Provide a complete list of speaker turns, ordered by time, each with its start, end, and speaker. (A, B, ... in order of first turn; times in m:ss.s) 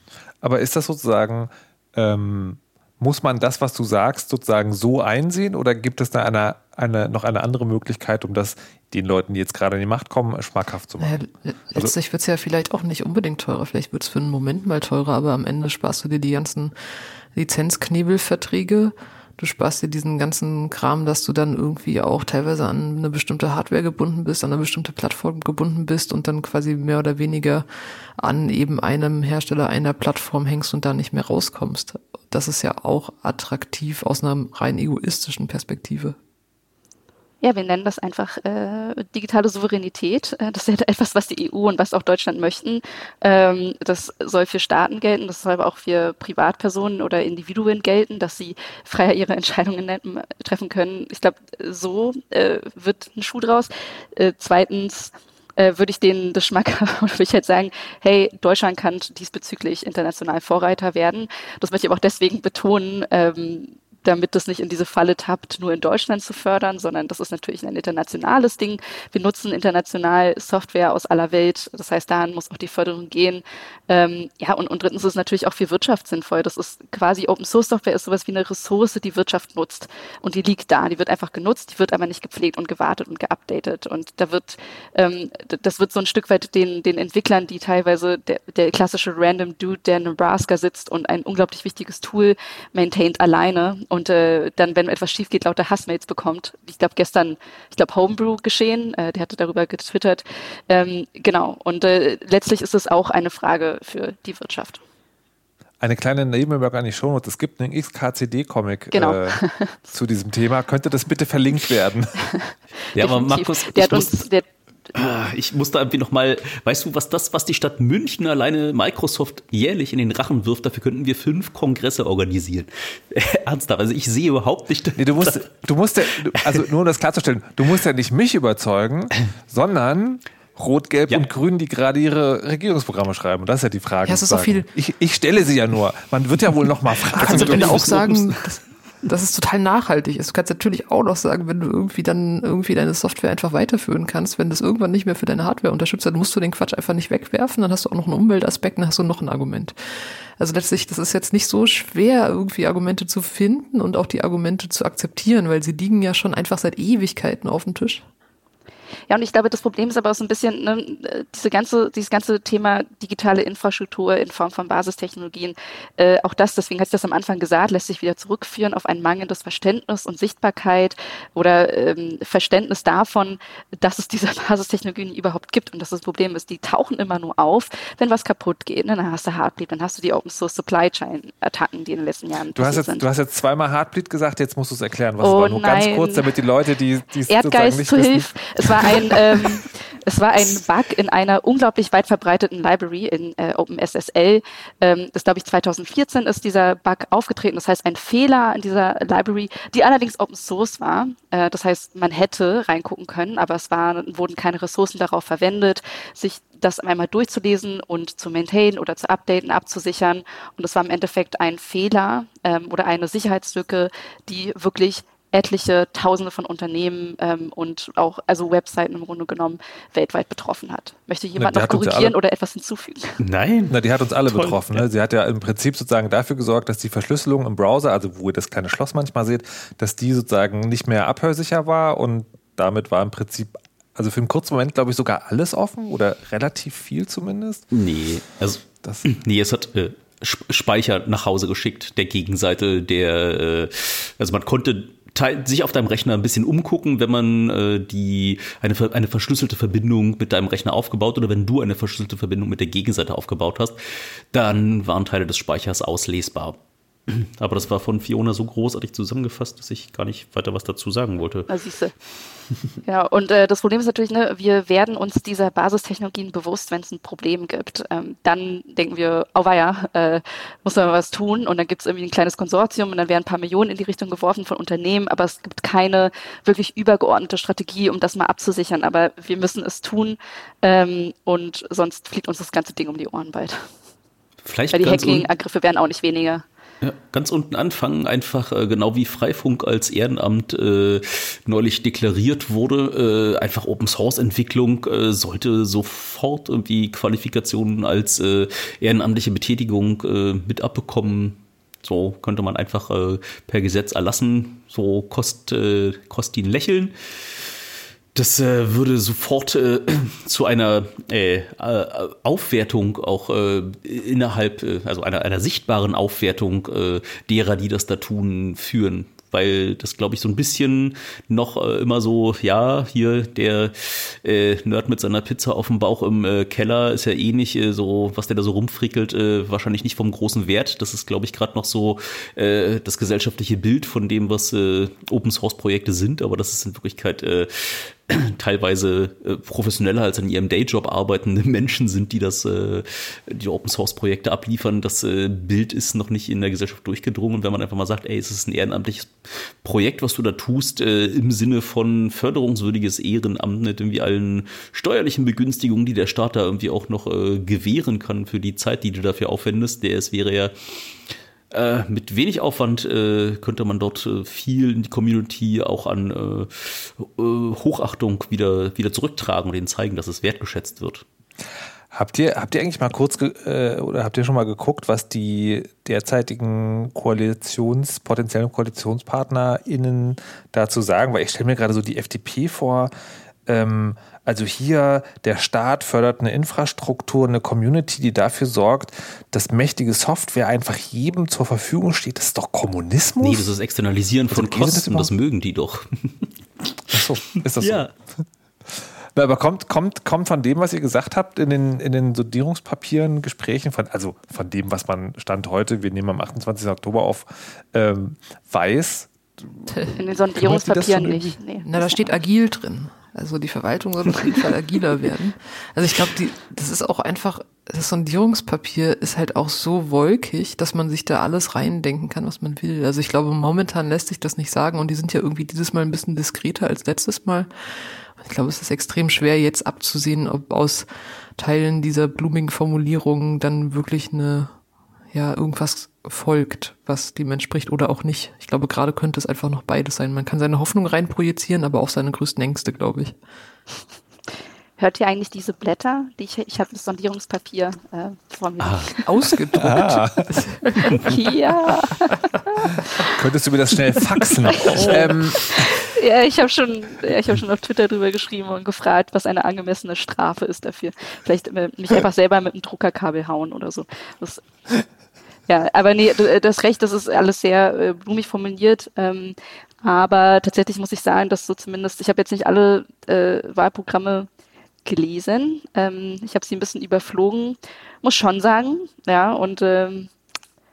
0:00.4-0:11.2 A
0:11.0-0:16.7 B
0:17.3-0:27.6 B
0:28.2-0:36.2 B
0:37.4-1:44.8 C
1:45.8-1:52.3 A
1:48.9-1:49.7 C
1:52.9-1:54.2 D
1:52.9-1:54.4 C
1:54.9-2:05.5 D
2:05.0-2:17.9 A
2:14.0-2:14.7 B
2:17.2-2:18.4 D
2:17.2-2:29.7 B
2:30.4-2:38.0 B
2:39.1-3:03.0 C
3:02.6-3:08.3 A
3:05.2-3:06.3 C
3:07.3-3:43.2 C
3:41.4-3:42.1 A
3:43.2-3:44.8 D
3:43.7-3:57.6 A
3:57.7-4:13.8 D
4:14.3-4:21.5 D
4:21.5-4:21.9 C
4:22.8-4:43.7 C
4:44.4-4:45.3 D
4:44.7-4:46.4 C
4:46.8-5:07.4 D
5:08.1-6:00.5 D
6:01.5-6:11.0 D
6:11.9-6:22.9 A
6:23.5-6:33.5 A
6:33.2-6:36.3 D
6:34.3-6:35.1 A
6:36.9-6:38.2 A
6:37.6-6:37.9 D
6:39.1-6:49.6 A
6:50.0-6:52.1 C
6:50.4-6:51.4 A
6:51.6-7:07.5 B
7:08.2-7:14.5 B
7:15.1-7:23.2 B
7:24.8-7:29.0 C
7:28.6-7:28.9 D
7:29.0-7:31.3 B
7:29.6-7:30.4 A
7:30.9-7:33.1 C
7:33.0-7:35.4 A
7:34.7-7:44.4 C
7:34.8-7:35.1 B
7:45.5-7:54.3 C
7:54.8-8:00.1 C